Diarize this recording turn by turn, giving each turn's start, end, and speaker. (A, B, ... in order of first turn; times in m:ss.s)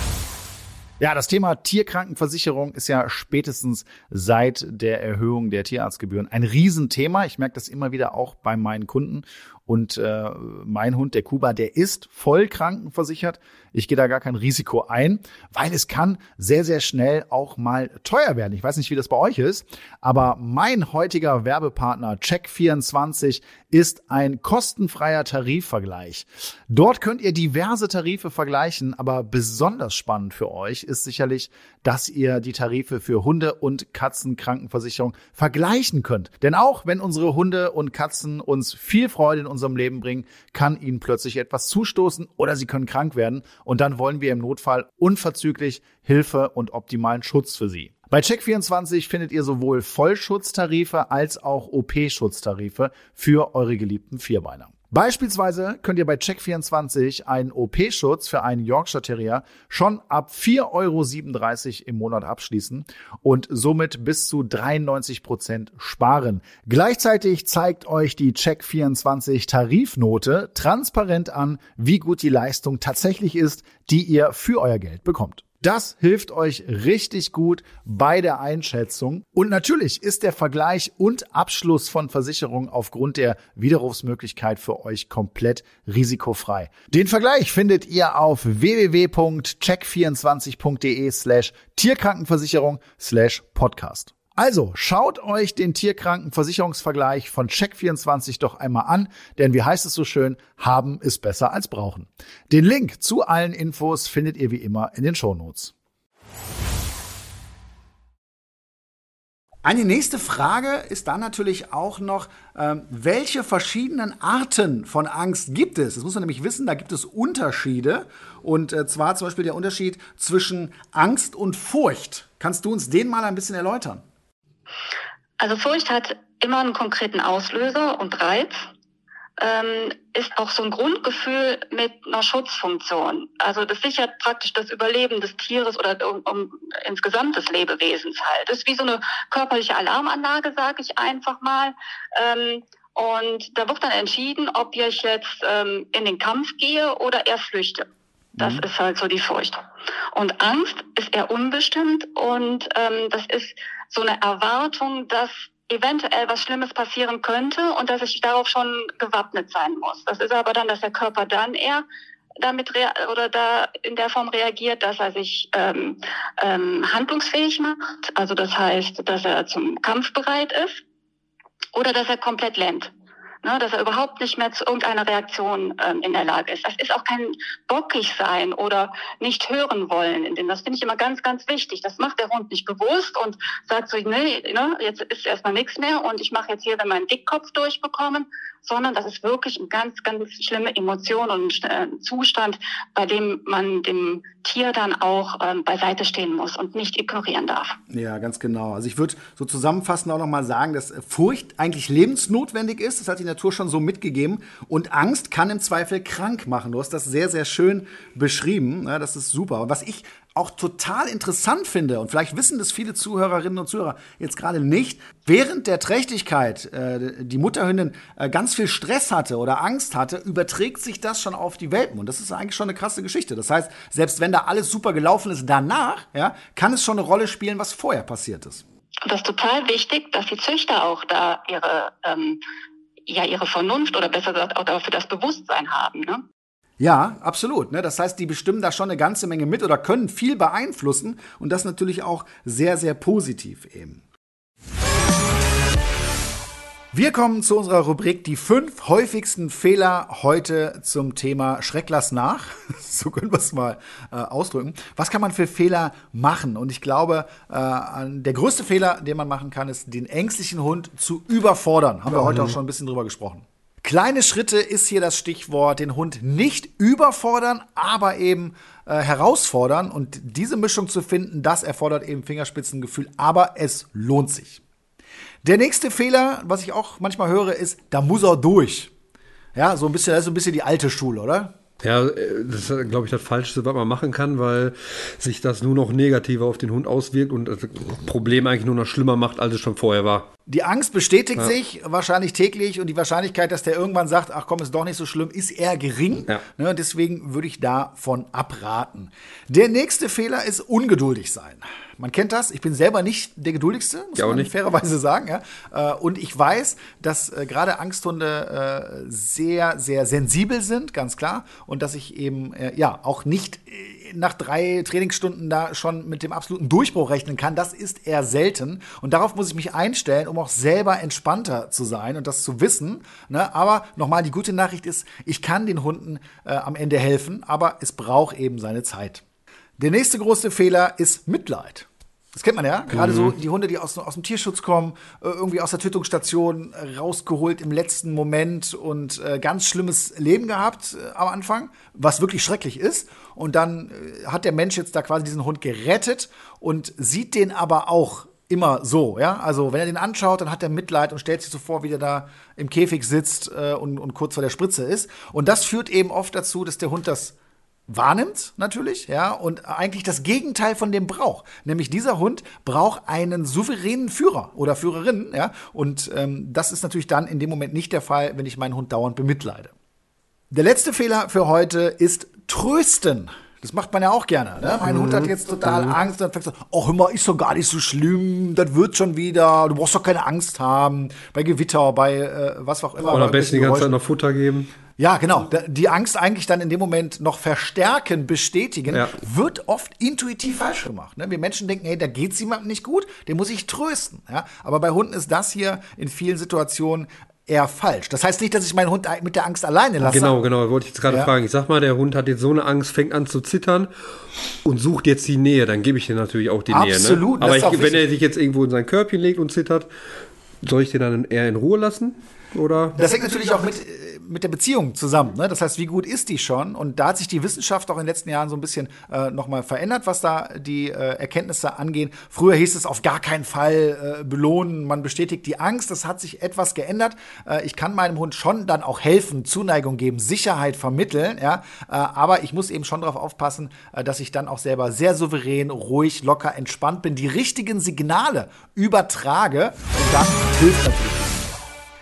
0:01.0-1:45.7 A
1:49.6-2:04.0 A
2:05.4-2:08.7 B
2:09.4-2:27.9 B
2:28.4-2:29.6 B
2:30.1-2:41.8 B
2:42.4-2:50.8 B
2:51.8-2:52.9 B
2:53.4-3:17.8 B
3:17.9-3:48.6 A
3:49.1-3:52.4 B
3:53.1-3:56.2 B
3:56.8-4:04.0 A
4:06.9-4:34.6 A
4:22.2-4:22.6 C
4:35.4-4:38.9 A
4:39.6-4:41.5 A
4:41.8-4:50.3 C
4:50.5-5:29.2 A
5:04.2-5:04.5 C
5:29.8-5:57.4 A
5:32.9-5:33.4 C
5:57.9-6:09.7 A
6:10.5-6:23.9 A
6:14.8-6:16.0 C
6:23.1-6:24.7 C
6:25.0-6:40.4 A
6:40.0-6:43.9 C
6:41.1-6:41.3 A
6:44.6-6:49.9 C
6:46.7-6:48.0 A
6:50.6-6:53.0 C
6:53.0-7:21.7 A